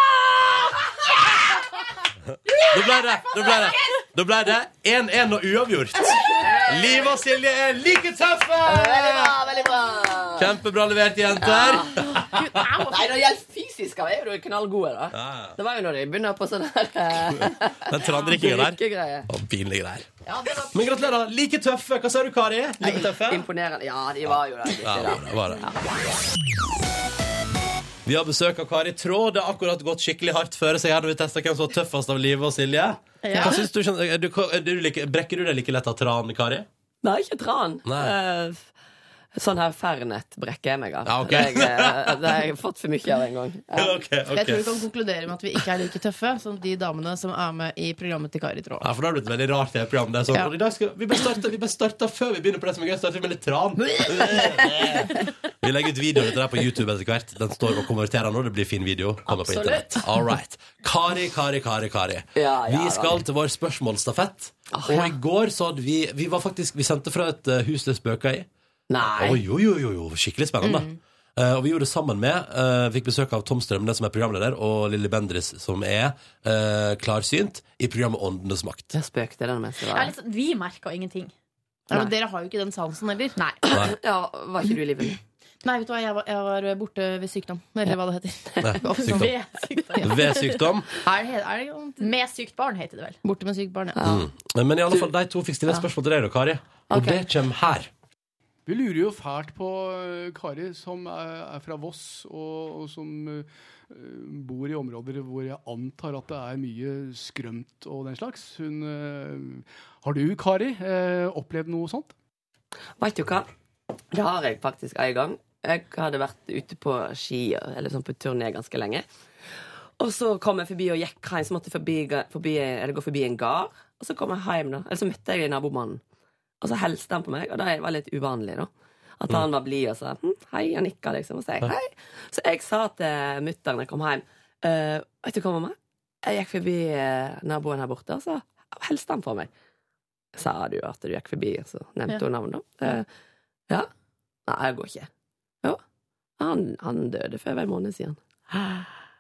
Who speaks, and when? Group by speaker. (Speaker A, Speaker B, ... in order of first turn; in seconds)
Speaker A: 2.7-9.3, 10.4-12.6, 15.1-15.6, 17.9-20.1, 20.7-23.4, 24.3-25.6, 28.1-36.7, 37.9-38.1, 41.1-42.3, 43.8-44.6, 48.8-68.5, 69.1-79.0, 88.6-89.3, 90.0-90.9, 94.1-97.9
Speaker B: 6.1-7.2, 8.6-10.5, 11.4-12.2, 12.8-19.3, 22.8-25.8, 37.0-38.7, 39.4-44.0, 54.3-54.7, 59.5-59.8, 62.4-63.2, 64.7-65.2, 68.9-69.4, 78.9-80.1, 83.7-85.2, 94.0-94.3, 113.0-113.5, 114.1-119.0, 120.0-126.0, 126.6-139.5, 140.3-143.1, 144.5-145.1, 146.4-148.9
Speaker C: 12.4-12.8, 33.3-33.5, 79.9-81.3, 88.9-90.6, 92.0-93.2, 96.9-97.2
Speaker D: 33.3-33.6, 44.3-48.9, 81.9-83.4, 85.6-89.3, 90.0-90.3, 91.0-92.1, 93.2-94.0
Speaker E: 98.7-112.2